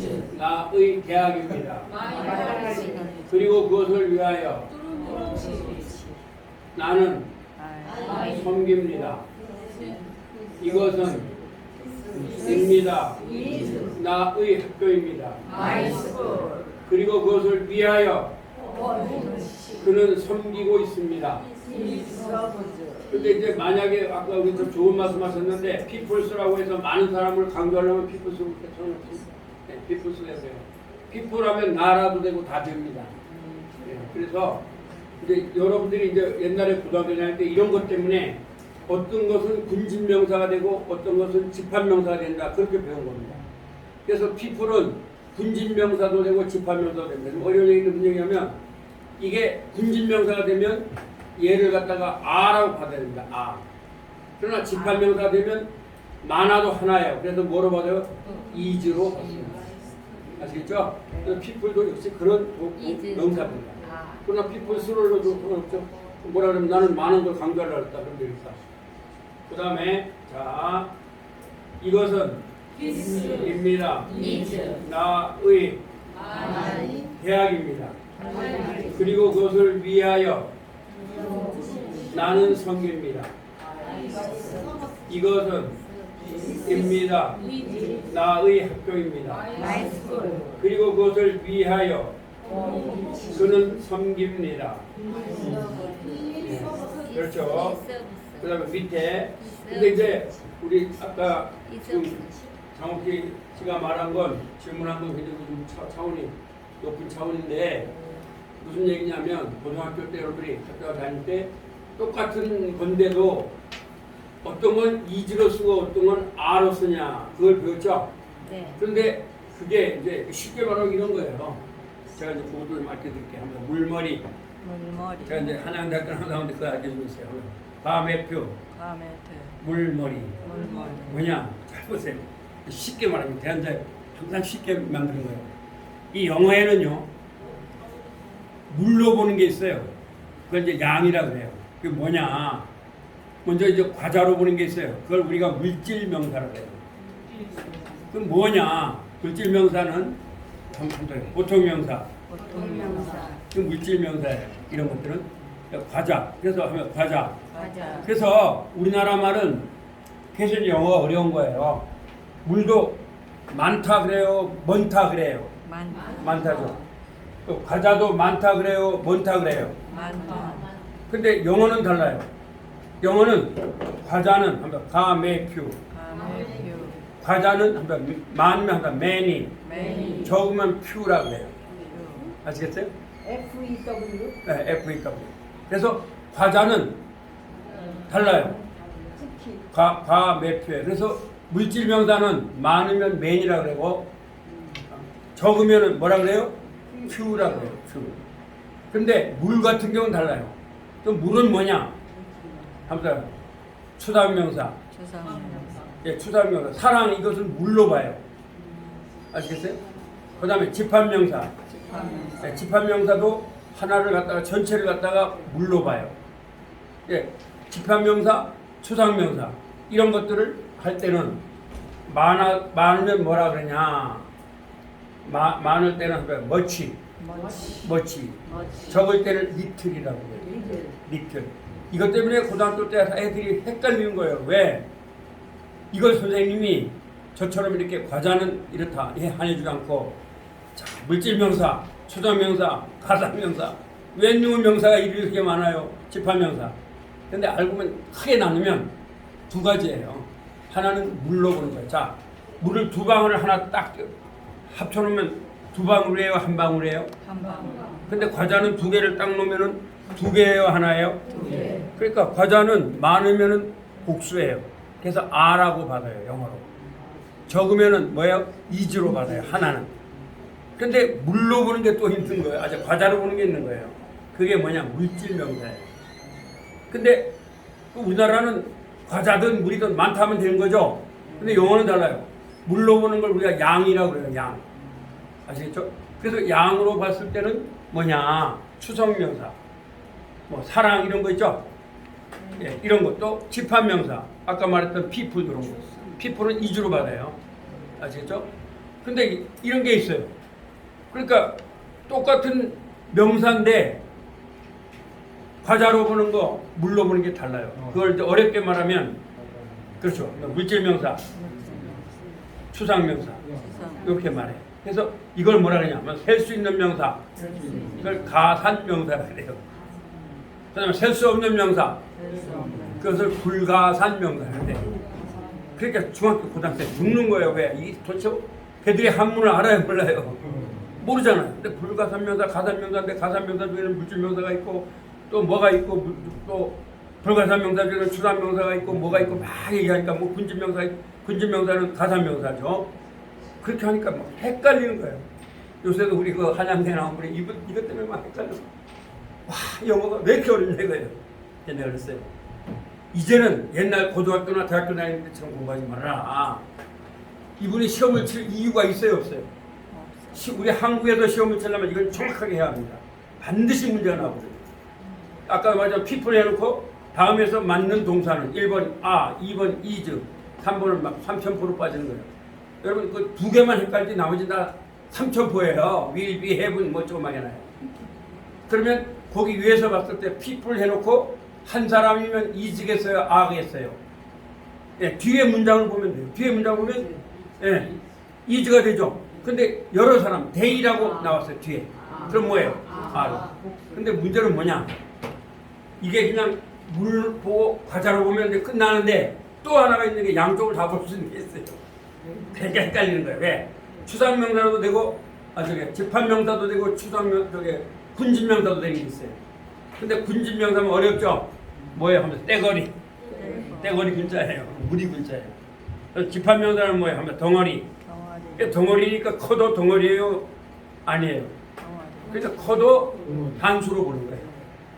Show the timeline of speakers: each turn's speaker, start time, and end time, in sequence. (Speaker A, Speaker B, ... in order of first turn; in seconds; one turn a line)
Speaker A: 0.3-1.9
Speaker B: 2.1-3.2
Speaker A: 3.3-4.7
Speaker A: 6.7-7.3
Speaker C: 7.6-8.0
Speaker A: 8.1-9.2
Speaker A: 10.6-11.3
Speaker A: 12.1-13.2
Speaker A: 13.9-15.5
Speaker A: 16.9-18.3
Speaker A: 19.8-21.4
Speaker D: 21.7-23.1
Speaker A: 23.1-33.1
Speaker A: 33.8-34.6
Speaker A: 35.2-43.4
Speaker A: 44.0-48.5
Speaker A: 49.2-53.6
Speaker A: 54.4-55.7
Speaker A: 56.2-59.7
Speaker A: 60.4-68.6
Speaker A: 69.5-70.9
Speaker A: 71.8-72.4
Speaker A: 73.2-74.2
Speaker A: 74.8-75.8
Speaker A: 77.2-77.9
Speaker A: 78.9-80.5
Speaker A: 82.1-83.3
Speaker A: 85.1-85.8
Speaker A: 86.6-87.4
Speaker A: 88.1-89.5
Speaker A: 90.6-92.1
Speaker A: 93.3-94.8
Speaker A: 96.4-97.8
Speaker A: 98.4-102.2
Speaker A: 102.7-107.9
Speaker A: 108.6-113.5
Speaker A: 114.4-118.1
Speaker B: 118.5-118.7
Speaker A: 118.8-121.6
Speaker A: 122.1-124.2
Speaker C: 124.6-125.4
Speaker A: 125.2-128.6
Speaker C: 128.8-129.5
Speaker A: 129.6-130.4
Speaker C: 130.4-131.1
Speaker A: 131.1-135.5
Speaker A: 136.1-137.1
Speaker A: 138.7-139.9
Speaker A: 140.5-142.7
Speaker A: 143.4-146.8
Speaker A: 148.1-150.2
Speaker A: 150.7-152.1
Speaker C: 152.3-153.3
Speaker B: 152.5-153.4
Speaker A: 153.5-157.4
Speaker C: 157.5-158.1
Speaker B: 157.6-158.0
Speaker A: 158.0-159.7
Speaker A: 160.3-161.8
Speaker A: 162.4-163.0
Speaker A: 163.5-165.5
Speaker C: 165.7-166.2
Speaker A: 166.2-166.8
Speaker A: 167.4-169.8
Speaker C: 169.9-170.7
Speaker A: 171.1-172.3
Speaker A: 173.0-175.8
Speaker C: 175.9-177.0
Speaker A: 177.2-179.5
Speaker C: 179.6-180.2
Speaker A: 180.2-181.5
Speaker C: 181.9-182.3
Speaker A: 182.4-182.9
Speaker D: 183.2-184.4
Speaker A: 184.4-187.0
Speaker A: 188.1-188.6
Speaker D: 189.1-189.6
Speaker A: 189.7-194.1
Speaker A: 195.3-196.5
Speaker A: 197.1-198.2
Speaker A: 198.9-201.9
Speaker A: 202.9-203.3
Speaker A: 204.0-204.8
Speaker C: 204.9-205.8
Speaker A: 206.0-208.2
Speaker A: 209.3-209.8
Speaker A: 210.4-211.5
Speaker C: 211.8-212.4
Speaker A: 212.4-216.2
Speaker A: 217.1-221.4
Speaker A: 222.1-224.3
Speaker A: 225.2-227.0
Speaker C: 227.3-227.6
Speaker A: 227.8-230.5
Speaker A: 231.0-234.8
Speaker A: 235.9-240.1
Speaker A: 240.7-246.7
Speaker A: 247.3-248.9
Speaker A: 249.5-254.1
Speaker A: 254.7-257.1
Speaker C: 257.2-257.9
Speaker A: 258.1-261.2
Speaker A: 261.9-266.6
Speaker A: 267.5-269.9
Speaker A: 270.8-275.9
Speaker A: 276.9-277.3
Speaker A: 277.9-284.6
Speaker A: 285.5-289.5
Speaker A: 290.5-291.6
Speaker A: 292.6-297.4
Speaker A: 298.0-298.4
Speaker A: 299.0-300.3
Speaker A: 301.1-301.6
Speaker A: 302.1-304.0
Speaker A: 305.6-309.2
Speaker A: 310.0-311.2
Speaker C: 311.5-312.0
Speaker A: 312.7-313.4
Speaker C: 313.6-314.1
Speaker A: 314.0-317.2
Speaker A: 317.9-319.6
Speaker A: 320.7-322.0
Speaker C: 322.4-322.9
Speaker A: 323.0-324.9
Speaker A: 325.8-342.9
Speaker A: 343.6-345.2
Speaker A: 345.8-348.7
Speaker A: 349.5-352.3
Speaker A: 353.1-356.6
Speaker A: 357.6-359.5
Speaker C: 359.9-360.4
Speaker A: 360.3-364.6
Speaker A: 365.5-372.3
Speaker A: 372.8-377.7
Speaker A: 378.7-384.0
Speaker A: 385.0-387.9
Speaker A: 388.4-394.9
Speaker A: 396.0-401.8
Speaker A: 402.5-409.4
Speaker A: 410.0-412.9
Speaker C: 413.4-413.9
Speaker A: 413.8-415.6
Speaker A: 416.1-417.9
Speaker C: 418.1-418.6
Speaker A: 418.6-420.5
Speaker A: 421.1-421.5
Speaker C: 421.8-422.4
Speaker A: 422.3-424.5